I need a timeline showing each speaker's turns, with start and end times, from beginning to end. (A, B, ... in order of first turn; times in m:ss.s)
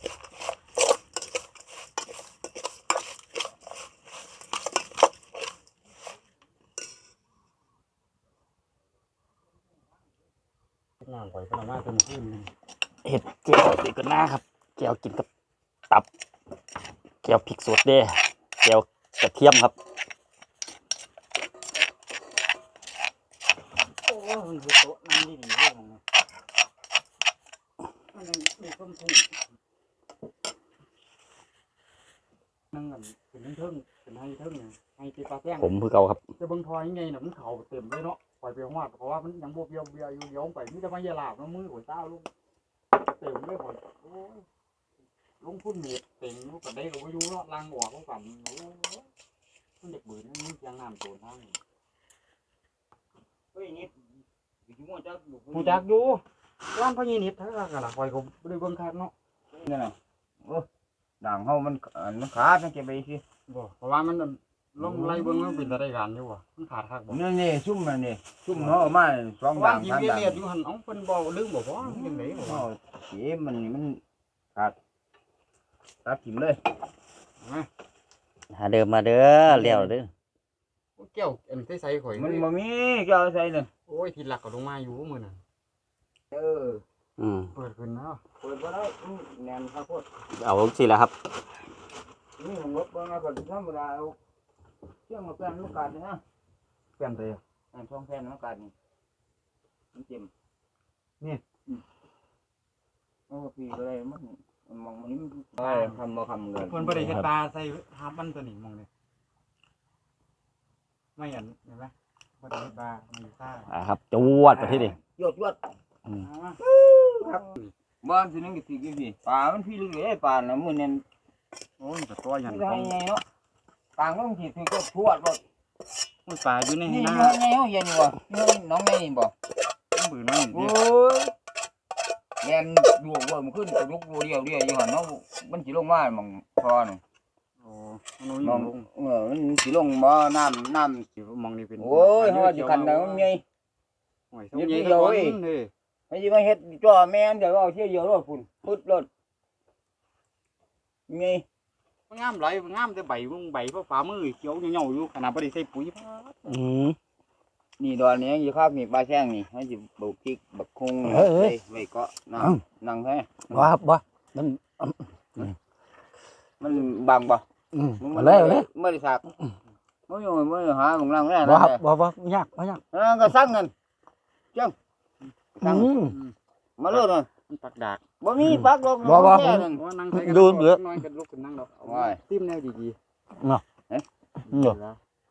0:11.0-0:12.5 A
0:13.0-0:15.3 B
0:17.2-0:19.7 B
0:24.0-0:26.0 A
0:28.1-0:29.3 A
0:32.7-0:35.7 A
0:35.6-0:36.2 B
0:36.4-0:42.3 A
0:42.9-0:44.4 A
0:45.4-0:49.0 A
0:49.8-0:51.6 A
0:53.5-0:53.9 C
0:54.7-0:55.8 C
0:55.5-0:56.2 A
0:56.7-0:59.1 A
0:59.5-1:00.7 C
1:01.2-1:03.2 C
1:03.5-1:07.2 A
1:04.8-1:05.8 C
1:07.1-1:10.4 C
1:08.6-1:08.8 A
1:09.5-1:12.6 A
1:11.8-1:14.0 C
1:16.0-1:16.6 C
1:17.4-1:17.7 A
1:18.5-1:20.1 B
1:19.5-1:19.9 A
1:21.0-1:22.4 A
1:22.2-1:23.7 C
1:23.9-1:25.4 A
1:26.3-1:26.8 C
1:27.2-1:27.5 B
1:27.5-1:28.2 A
1:28.4-1:30.1 C
1:30.4-1:31.1 B
1:32.4-1:34.2 C
1:35.1-1:36.2 C
1:37.0-1:37.4 A
1:37.7-1:38.7 C
1:39.9-1:40.3 C
1:43.3-1:47.2 C
1:45.6-1:46.0 A
1:46.6-1:48.9 A
1:47.0-1:47.3 B
1:51.2-1:53.7 A
1:53.7-1:55.0 B
1:54.5-1:55.6 C
1:56.2-1:56.6 A
1:56.6-1:57.5 C
1:57.3-1:57.7 A
1:58.0-2:01.0 C
2:01.8-2:02.9 A
2:02.4-2:03.2 C
2:04.0-2:05.4 C
2:06.2-2:07.4 A
2:06.8-2:09.3 C
2:09.9-2:10.8 A
2:10.5-2:11.3 C
2:12.4-2:17.0 C
2:17.6-2:18.8 A
2:18.4-2:21.0 C
2:21.2-2:23.3 A
2:21.8-2:23.4 C
2:24.3-2:25.7 A
2:24.5-2:25.4 C
2:26.1-2:29.1 C
2:31.1-2:31.4 C
2:32.1-2:36.5 A
2:36.4-2:37.0 B
2:37.8-2:43.7 C
2:41.0-2:41.6 B
2:43.5-2:45.5 B
2:46.6-2:47.4 C
2:47.7-2:48.6 B
2:48.0-2:49.2 C
2:50.1-2:51.8 C
2:51.4-2:52.8 B
2:52.9-2:53.7 C
2:55.5-2:55.9 C
2:55.6-2:56.1 B
2:56.0-2:56.3 A
2:56.8-2:57.3 C
2:56.9-2:58.0 A
2:58.2-2:59.8 C
2:58.4-3:00.8 B
2:59.4-3:03.0 A
3:01.8-3:02.2 C
3:03.4-3:03.6 B
3:04.4-3:05.0 A
3:04.5-3:04.8 B